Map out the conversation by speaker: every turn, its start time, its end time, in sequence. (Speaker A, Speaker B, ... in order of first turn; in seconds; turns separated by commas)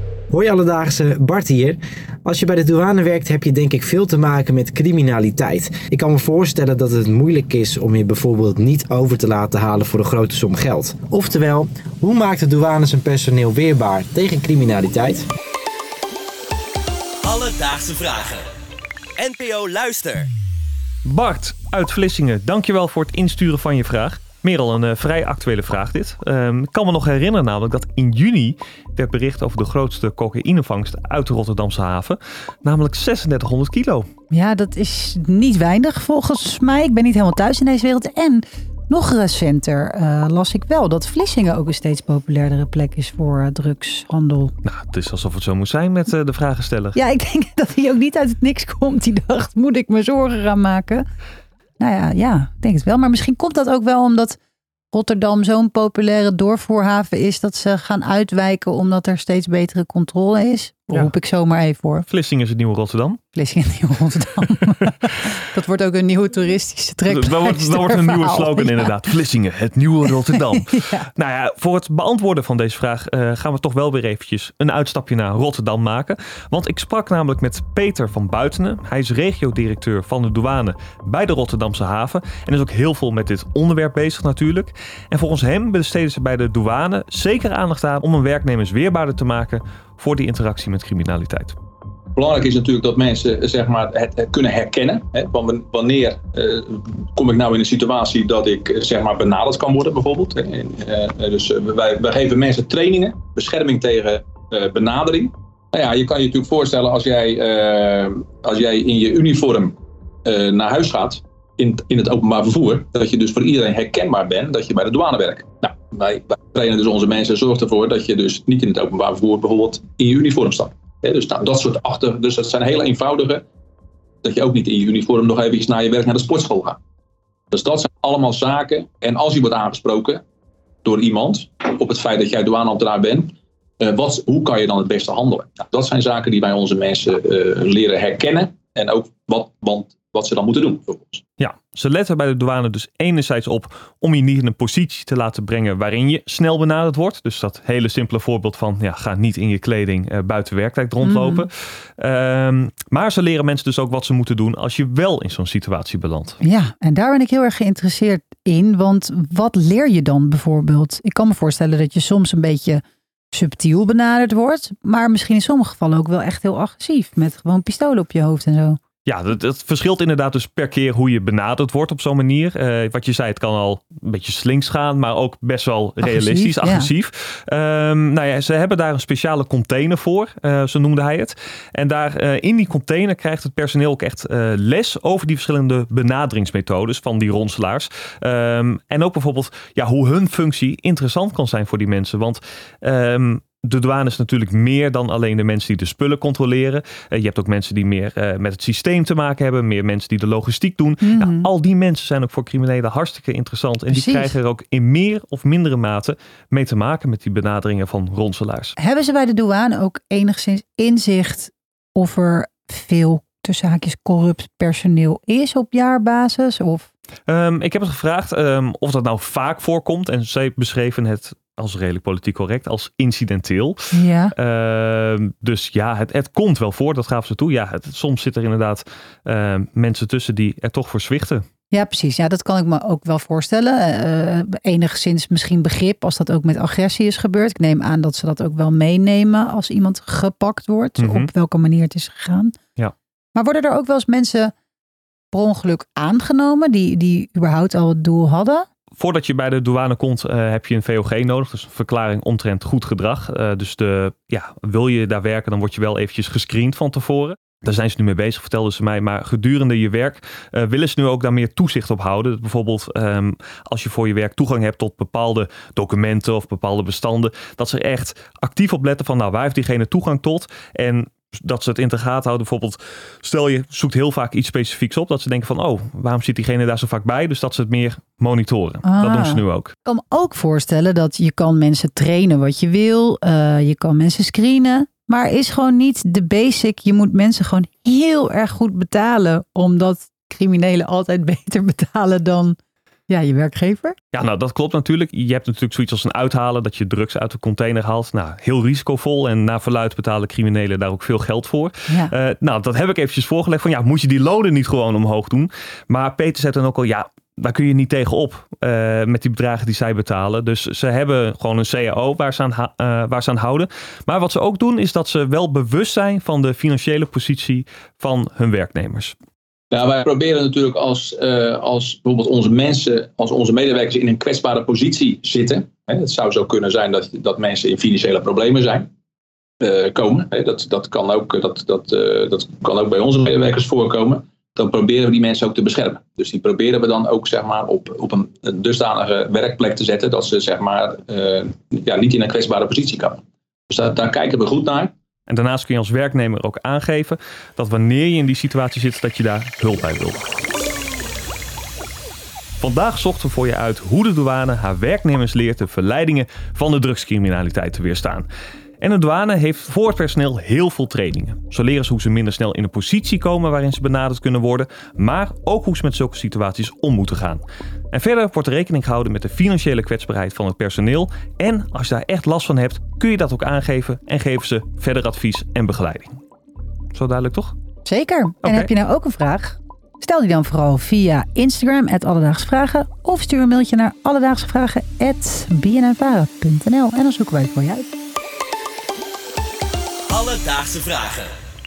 Speaker A: 0.3-15.2, Speaker B: 17.2-18.5, Speaker B: 19.2-20.3, Speaker C: 21.1-34.1, Speaker D: 34.3-44.5, Speaker C: 44.6-47.0, Speaker D: 47.0-51.1, Speaker D: 51.8-54.4, Speaker D: 54.9-62.1, Speaker C: 62.1-63.2, Speaker D: 63.3-68.9, Speaker C: 67.1-91.6, Speaker D: 70.2-71.0, Speaker E: 92.2-123.4, Speaker E: 124.2-126.8, Speaker E: 127.5-130.2, Speaker E: 130.8-141.2, Speaker C: 141.4-156.4, Speaker D: 151.0-151.5, Speaker D: 156.4-168.8, Speaker C: 169.1-208.8, Speaker D: 176.0-176.9, Speaker D: 201.0-201.5, Speaker D: 203.9-204.4, Speaker D: 208.8-216.9, Speaker C: 217.3-231.5, Speaker D: 223.9-224.3, Speaker D: 231.7-242.6, Speaker C: 241.0-241.3, Speaker D: 243.3-244.5, Speaker D: 245.3-248.7, Speaker C: 249.0-279.7, Speaker D: 278.8-292.6, Speaker D: 293.1-294.0, Speaker C: 294.1-319.1, Speaker E: 319.7-328.9, Speaker E: 329.6-344.9, Speaker C: 345.3-350.2, Speaker C: 352.6-358.3, Speaker C: 358.8-376.2, Speaker C: 376.9-377.6, Speaker D: 377.9-387.9, Speaker C: 378.4-378.7, Speaker B: 390.1-391.3